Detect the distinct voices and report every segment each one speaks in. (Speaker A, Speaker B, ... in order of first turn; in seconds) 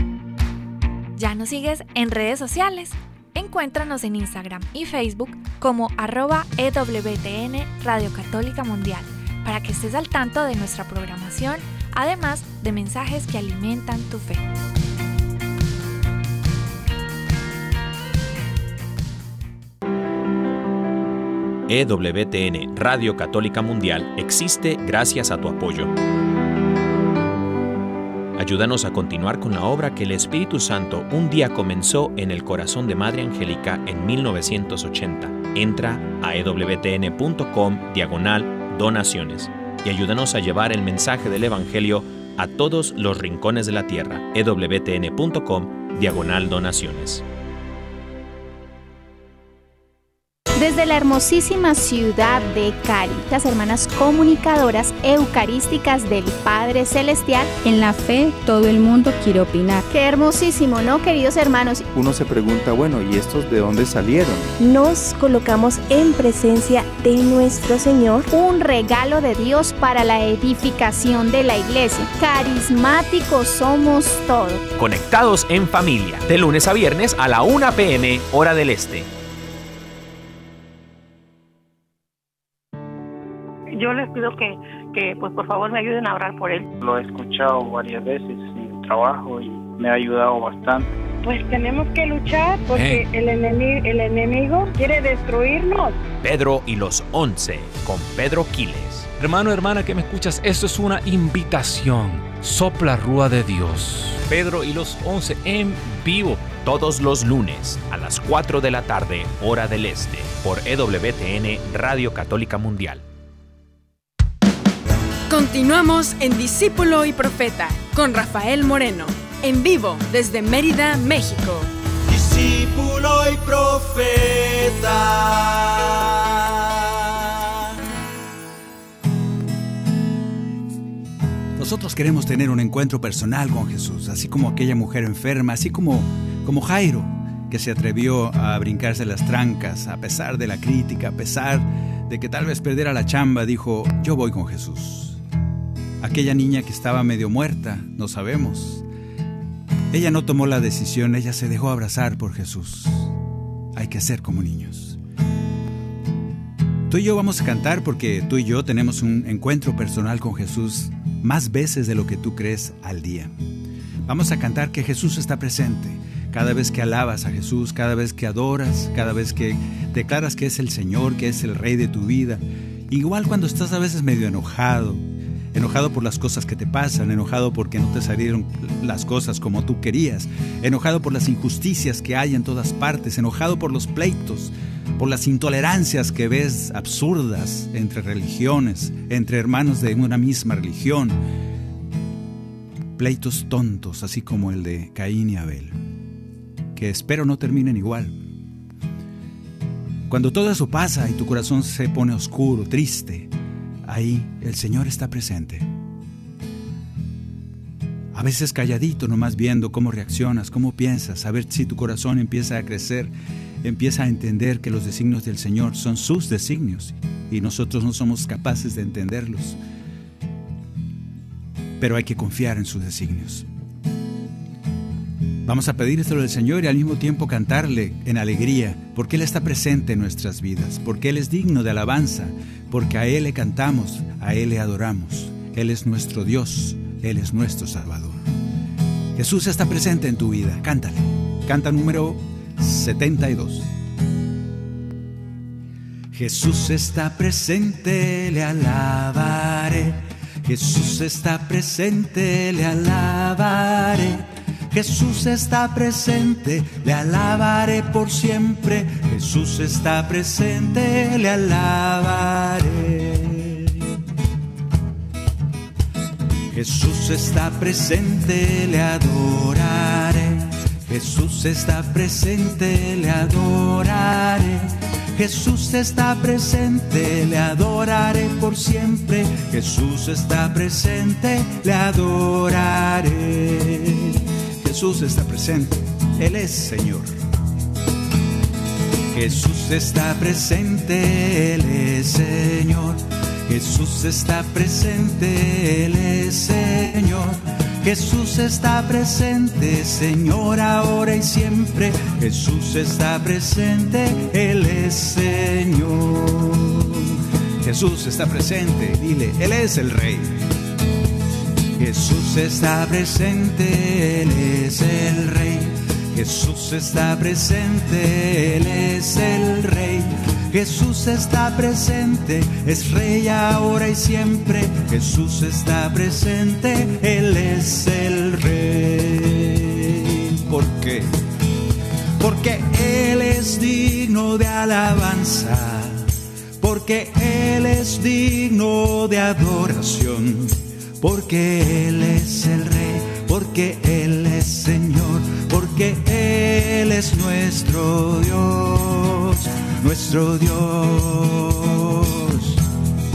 Speaker A: 1.1-14.4
Speaker B: 21.7-25.9, 28.4-47.2, 74.8-79.1, 96.2-99.1, 104.3-113.0
Speaker C: 50.6-57.5, 59.9-61.9, 64.7-67.6, 68.1-74.6
Speaker D: 57.6-59.9
Speaker E: 61.9-64.5
Speaker F: 64.6-68.2
Speaker G: 83.7-86.7
Speaker H: 86.8-90.9
Speaker I: 91.2-96.0
Speaker J: 92.7-93.0, 99.2-104.2
Speaker K: 115.3-121.7
Speaker L: 122.1-126.2, 131.6-145.2, 146.0-148.8, 149.9-153.1, 153.7-155.0, 156.9-163.3, 164.1-191.2, 193.0-195.8, 196.7-198.2, 200.1-203.3, 203.8-205.7, 208.1-213.1, 213.6-219.6, 221.8-223.5, 225.4-238.2, 239.2-243.7, 246.1-263.7, 266.5-287.1, 289.1-310.4, 311.7-331.1, 332.2-336.1, 336.6-352.6